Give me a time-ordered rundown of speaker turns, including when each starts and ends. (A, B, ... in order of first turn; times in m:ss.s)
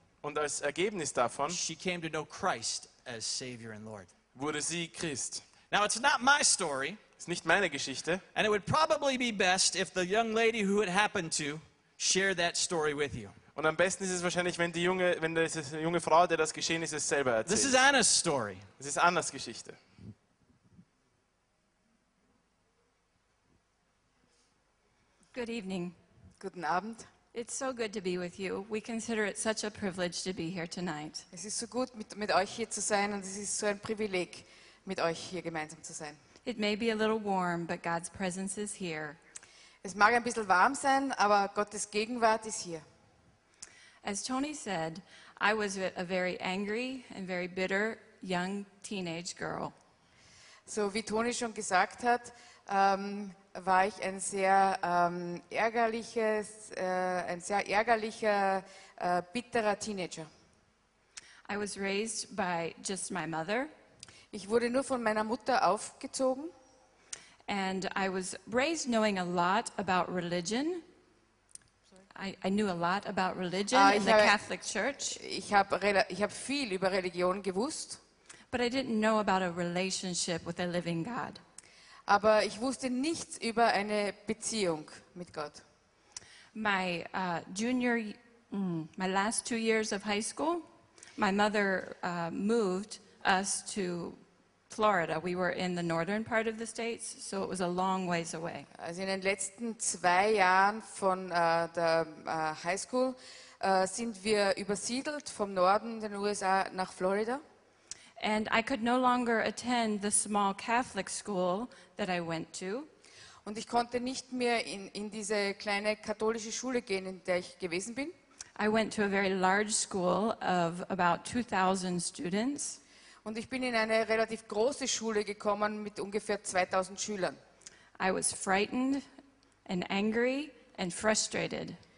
0:00.2-0:01.6 A
0:01.5-0:04.1 B
0:04.4-0:05.4 A
0:05.7-0:07.0 B
0:07.2-0:08.2 A
0:08.4-0:13.4 B
0:13.6-0:17.8 A
0:17.5-0:18.7 B
0:18.8-0:19.8 A
0:25.3-0:26.0 C
0:26.4-0:27.1 D
0:27.3-0:31.2 C
0:31.3-0:36.2 D
0:36.4-0:39.2 C
0:39.8-0:42.8 D
0:44.0-0:49.7 C
0:50.7-1:00.3 D
1:01.5-1:03.7 C
1:04.3-1:06.5 D
1:07.5-1:10.8 C
1:12.2-1:15.2 C
1:13.7-1:14.4 D
1:15.1-1:18.0 D
1:18.5-1:21.4 C
1:22.1-1:25.6 D
1:26.5-1:30.6 C
1:31.2-1:38.7 C
1:38.8-1:47.4 D
1:48.2-1:52.9 C
1:53.4-1:58.1 D
1:58.6-2:02.8 C
2:03.2-2:07.4 D
2:08.0-2:09.0 C
2:09.6-2:11.8 C